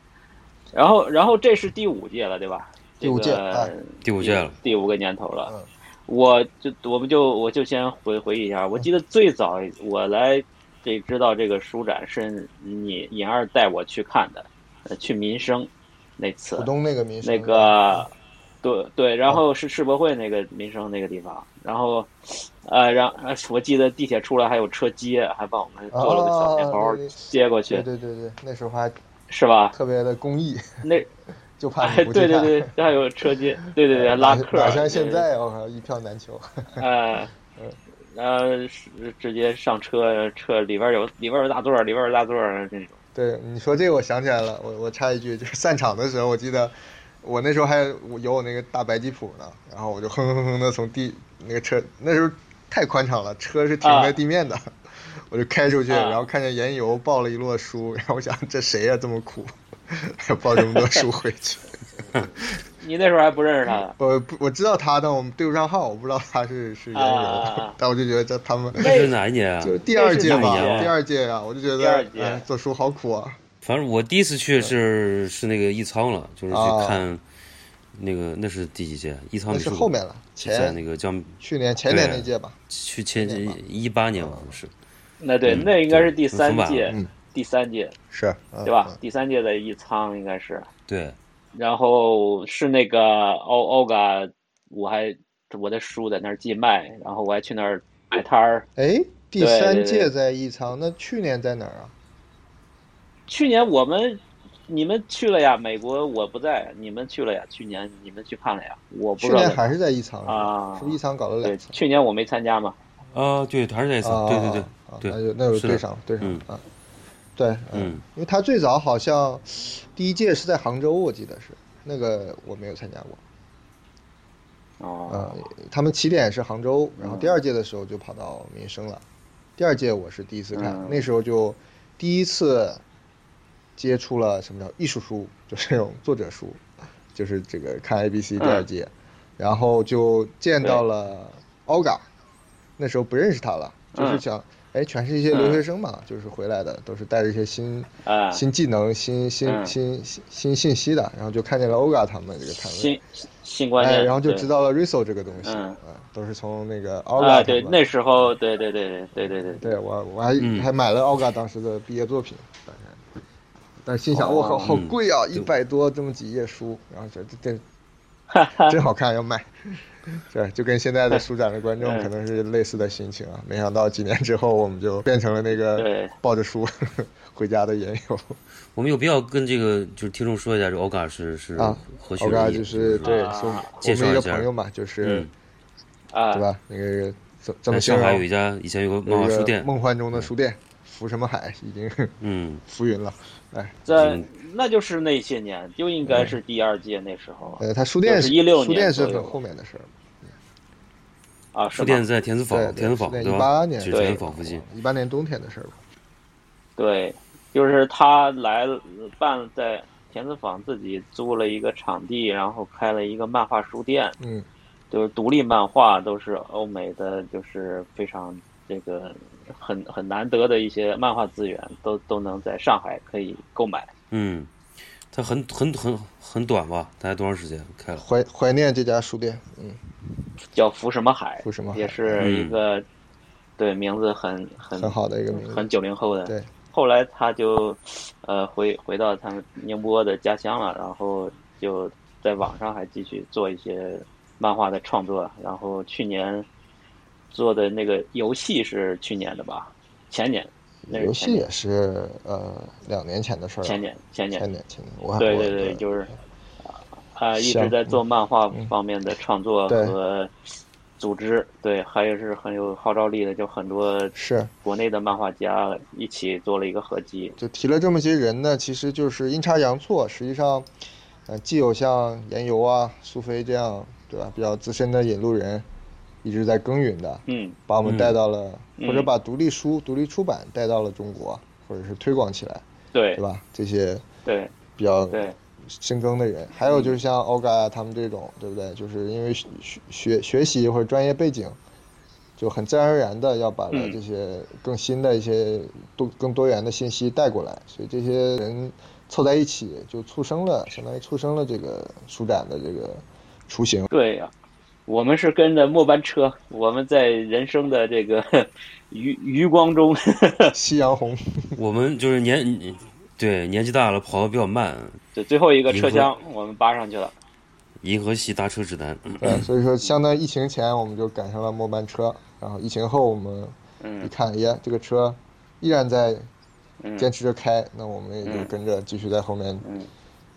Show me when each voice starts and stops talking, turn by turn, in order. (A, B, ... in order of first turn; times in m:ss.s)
0:00.7-0:05.5 A
0:03.0-0:03.7 B
0:04.0-0:04.6 C
0:06.1-0:16.7 A
0:16.5-0:18.0 B
0:17.2-0:27.8 A
0:25.9-0:28.9 B
0:29.3-0:29.8 A
0:29.7-0:30.8 B
0:30.8-0:31.1 A
0:31.6-0:32.7 B
0:31.8-0:35.2 A
0:33.9-0:36.8 B
0:36.8-0:37.3 A
0:38.1-0:43.0 A
0:43.1-1:01.8 B
0:53.8-0:54.2 A
0:55.9-0:56.2 A
1:02.8-1:03.9 A
1:03.9-1:09.0 B
1:06.9-1:07.8 A
1:08.8-1:10.9 C
1:08.8-1:09.1 A
1:09.6-1:13.4 B
1:09.9-1:10.9 A
1:11.8-1:12.4 A
1:13.6-1:17.2 C
1:16.5-1:17.0 B
1:17.9-1:24.7 C
1:19.5-1:20.8 B
1:21.4-1:22.6 B
1:23.2-1:23.6 B
1:24.2-1:24.5 B
1:25.2-1:28.0 A
1:25.4-1:27.0 C
1:28.1-1:29.0 B
1:28.6-1:30.7 A
1:30.9-1:31.2 C
1:31.5-1:38.6 A
1:38.8-1:41.9 B
1:39.4-1:40.1 A
1:43.3-1:49.7 A
1:49.2-1:51.8 B
1:50.2-1:52.8 A
1:53.1-1:56.4 C
1:54.0-1:56.6 B
1:57.4-2:03.2 B
1:57.7-1:58.0 C
2:04.8-2:05.4 A
2:05.1-2:09.0 B
2:07.0-2:07.4 A
2:09.6-2:12.8 B
2:10.5-2:11.0 A
2:13.8-2:16.6 B
2:17.1-2:22.0 B
2:18.4-2:18.6 A
2:22.8-2:33.0 B
2:23.9-2:24.2 A
2:25.3-2:25.6 A
2:28.0-2:28.4 A
2:29.4-2:29.7 A
2:32.7-2:34.5 A
2:33.8-2:37.8 B
2:35.4-2:35.8 A
2:37.2-2:39.6 A
2:39.2-2:43.0 B
2:40.4-2:40.7 C
2:43.8-2:47.6 B
2:44.1-2:44.7 A
2:44.6-2:45.5 C
2:48.3-2:48.7 A
2:48.6-2:49.5 B
2:50.1-2:58.4 B
2:51.8-2:52.1 A
2:55.7-2:56.1 A
2:58.7-3:04.5 C
3:01.6-3:05.3 B
3:03.0-3:03.7 A
3:05.0-3:05.3 C
3:06.1-3:06.4 A
3:06.3-3:08.2 B
3:07.7-3:10.3 C
3:09.0-3:13.8 B
3:12.2-3:12.6 C
3:13.8-3:19.4 A
3:13.9-3:14.2 C
3:16.0-3:16.4 B
3:17.6-3:19.9 B
3:21.5-3:22.0 A
3:21.7-3:24.6 C
3:22.5-3:25.8 B
3:23.9-3:24.2 A
3:26.8-3:34.2 A
3:34.2-3:34.5 B
3:34.9-3:43.9 A
3:44.1-3:44.5 C
3:45.1-3:48.0 C
3:48.0-3:50.0 B
3:50.5-3:52.8 A
3:51.4-3:52.2 B
3:52.2-3:52.6 C
3:53.6-4:06.4 A
3:54.7-3:55.7 B
4:07.3-4:11.5 A
4:10.9-4:13.8 B
4:13.6-4:14.4 A
4:14.4-4:15.8 B
4:15.2-4:16.1 A
4:16.7-4:20.3 A
4:17.4-4:18.0 B
4:19.7-4:19.9 B
4:21.0-4:27.4 A
4:24.1-4:24.5 B
4:27.4-4:30.7 B
4:31.3-4:35.6 B
4:36.2-4:42.6 B
4:37.3-4:37.6 A
4:37.8-4:38.2 C
4:38.8-4:39.1 A
4:42.9-4:43.2 A
4:43.2-4:44.0 B
4:44.2-4:44.5 A
4:44.8-4:51.6 B
4:45.1-4:45.4 A
4:46.6-4:47.0 A
4:52.4-5:03.9 B
4:53.7-4:54.0 A
5:03.9-5:04.3 A
5:04.9-5:10.5 A
5:10.5-5:11.6 B
5:11.6-5:15.0 C
5:15.1-5:17.1 A
5:15.7-5:16.1 C
5:17.8-5:19.5 C
5:19.2-5:26.3 B
5:23.8-5:24.1 A
5:26.8-5:27.1 A
5:27.0-5:29.6 B
5:28.2-5:28.5 A
5:29.6-5:29.9 A